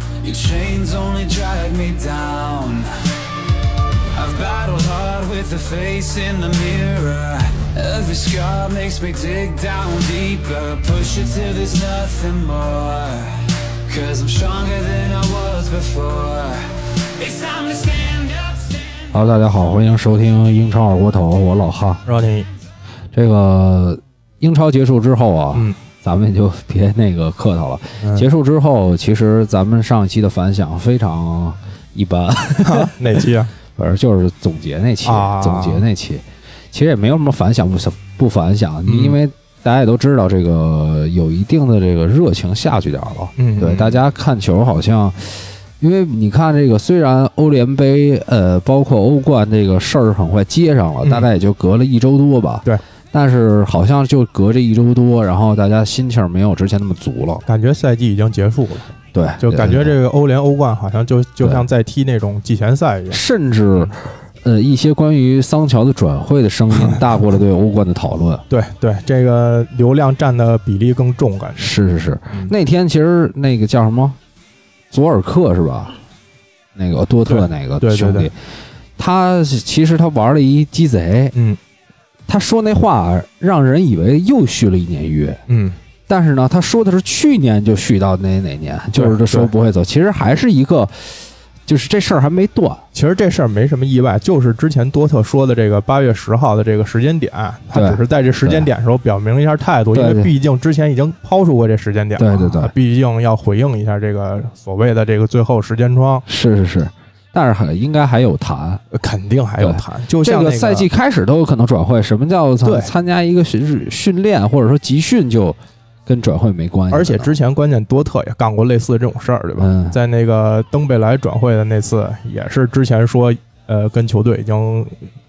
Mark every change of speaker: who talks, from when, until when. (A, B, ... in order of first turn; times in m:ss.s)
0:00.2-0:02.9 A
0:04.1-0:19.1 A
0:19.1-0:22.0 B
0:22.0-0:22.5 C
0:23.1-0:32.9 B
0:28.0-0:28.3 C
0:32.6-0:33.5 C
0:33.7-0:57.4 B
0:35.0-0:35.8 C
0:38.9-0:39.2 C
0:43.4-0:44.0 C
0:57.4-1:03.9 C
0:59.1-1:00.0 B
1:03.1-1:08.4 B
1:06.7-1:07.0 C
1:08.5-1:11.7 C
1:11.6-1:14.2 B
1:14.9-1:16.0 B
1:16.8-1:18.4 B
1:17.2-1:18.3 C
1:19.0-1:21.3 B
1:21.3-1:21.6 C
1:22.3-1:25.4 B
1:25.5-1:25.8 C
1:26.1-1:32.8 B
1:29.0-1:29.5 C
1:32.9-1:46.2 C
1:37.7-1:38.7 B
1:39.9-1:40.3 B
1:42.2-1:42.7 B
1:46.2-1:48.8 B
1:48.9-1:50.9 C
1:49.6-1:57.3 B
1:52.6-1:52.9 C
1:56.9-2:05.1 C
1:59.6-2:00.0 B